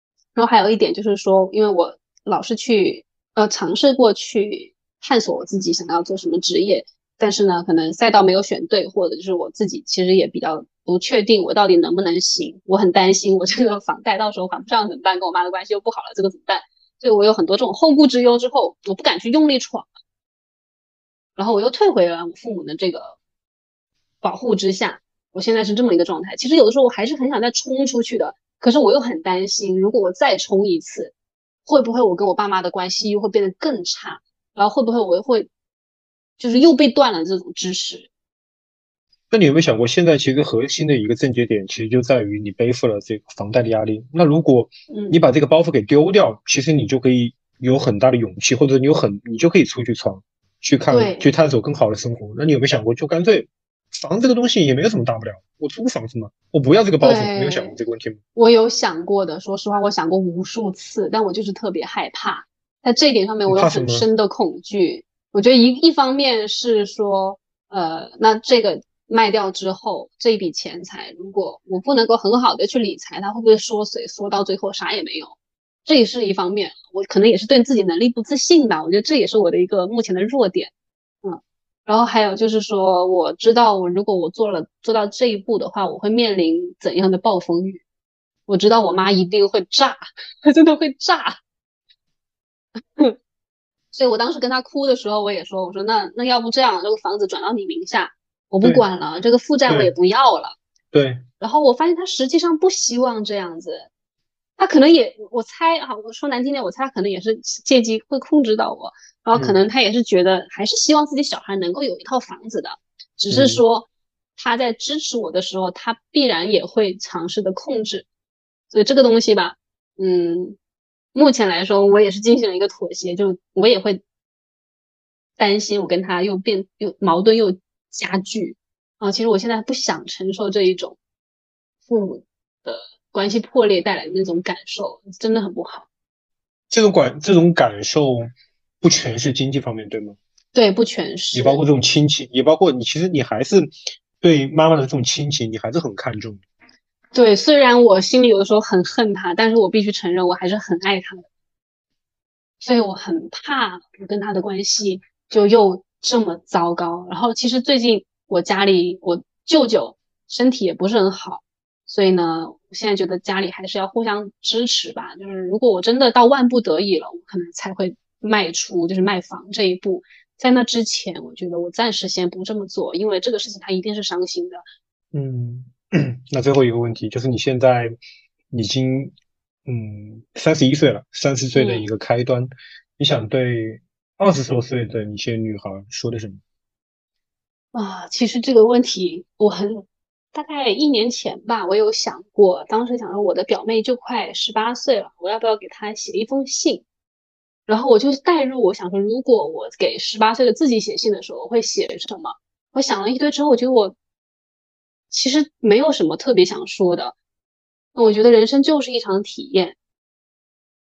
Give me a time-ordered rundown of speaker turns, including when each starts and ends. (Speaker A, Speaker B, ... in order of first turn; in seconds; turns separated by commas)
Speaker A: 0.3-19.9, Speaker A: 21.4-23.2, Speaker A: 24.2-31.1, Speaker A: 31.7-35.5, Speaker A: 36.4-38.1, Speaker B: 39.3-58.2, Speaker A: 44.9-45.2, Speaker A: 50.9-51.3, Speaker A: 57.0-57.8, Speaker A: 58.4-80.7, Speaker B: 63.5-64.1, Speaker A: 81.2-87.8, Speaker A: 88.5-91.4, Speaker A: 93.9-100.6, Speaker B: 99.7-99.9, Speaker B: 100.9-101.2, Speaker A: 101.4-103.9, Speaker A: 104.6-118.1, Speaker B: 113.3-113.6, Speaker A: 118.7-120.6, Speaker A: 121.2-124.0, Speaker A: 125.4-131.0, Speaker A: 131.9-135.9, Speaker B: 136.7-140.2, Speaker A: 140.5-141.6, Speaker B: 141.3-146.4, Speaker A: 147.1-151.2, Speaker A: 152.6-174.6, Speaker B: 175.1-177.9, Speaker B: 178.5-179.1, Speaker B: 179.7-186.4, Speaker A: 181.6-181.9, Speaker A: 187.7-196.8, Speaker A: 197.7-203.9, Speaker A: 205.1-207.2, Speaker A: 207.9-209.8